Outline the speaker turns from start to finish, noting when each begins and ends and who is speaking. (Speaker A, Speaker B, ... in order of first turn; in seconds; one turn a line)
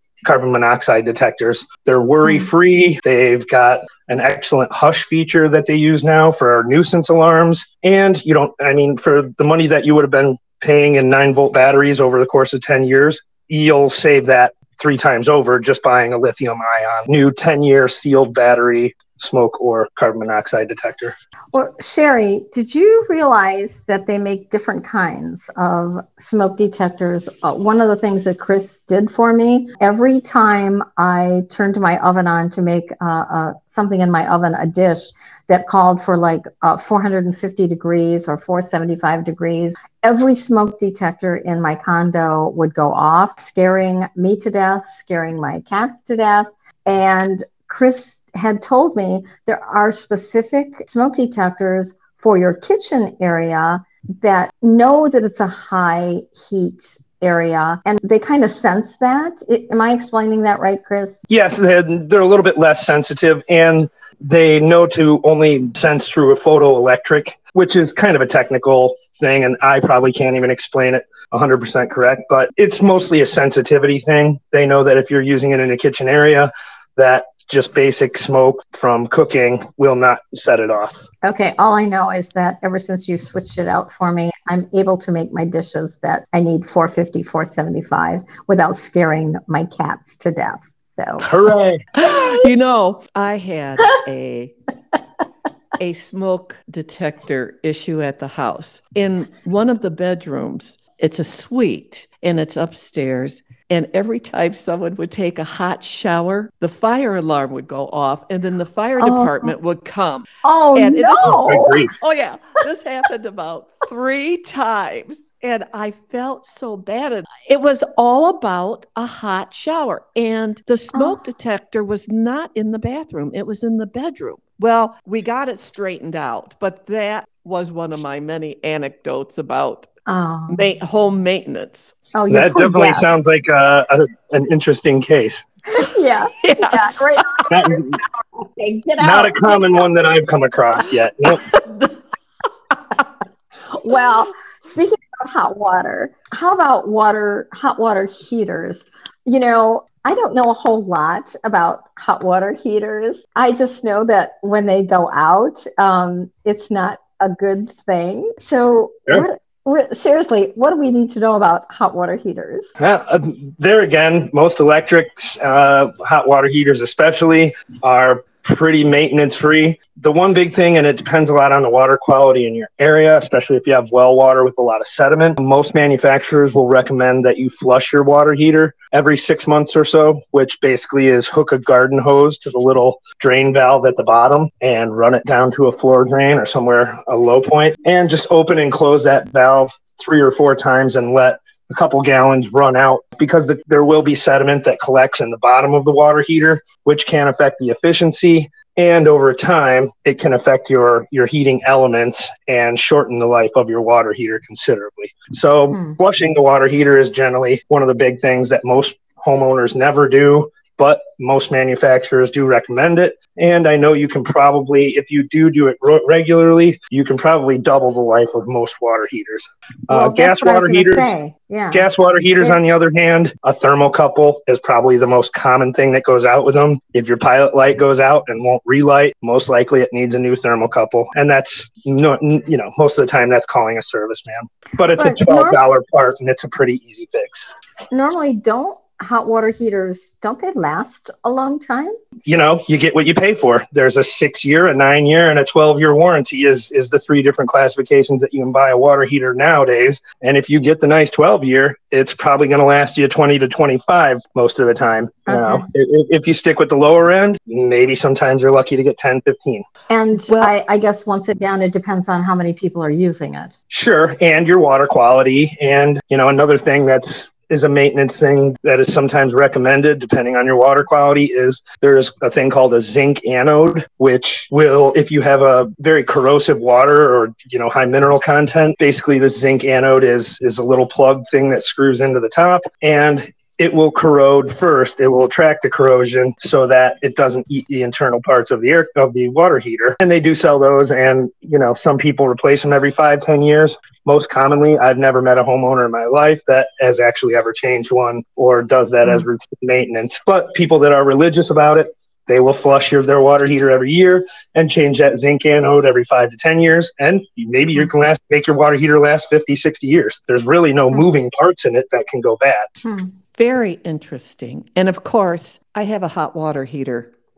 Speaker A: 0.2-21.1
Speaker B: 21.5-61.2
Speaker A: 61.3-80.9
Speaker B: 81.2-91.4
Speaker A: 91.2-91.8
Speaker C: 92.0-94.5
Speaker B: 92.1-92.4
Speaker C: 95.8-129.9
Speaker B: 109.0-109.5
Speaker B: 110.4-111.8
Speaker A: 111.2-112.0
Speaker B: 120.9-121.2
Speaker B: 130.1-130.7
Speaker C: 130.5-131.9
Speaker B: 132.1-133.1
Speaker A: 132.3-135.4
Speaker B: 135.7-139.9
Speaker C: 136.4-137.4
Speaker A: 137.5-138.0
Speaker A: 139.0-141.4
Speaker C: 141.5-141.9
Speaker B: 143.7-162.7
Speaker A: 162.8-221.1
Speaker B: 205.7-206.0
Speaker B: 219.9-221.9
Speaker A: 221.7-237.5
Speaker B: 234.9-235.6
Speaker B: 237.9-241.9
Speaker A: 242.2-259.6
Speaker B: 255.3-255.7
Speaker B: 259.9-263.5
Speaker A: 263.7-312.7
Speaker B: 312.8-313.1
Speaker C: 313.4-317.1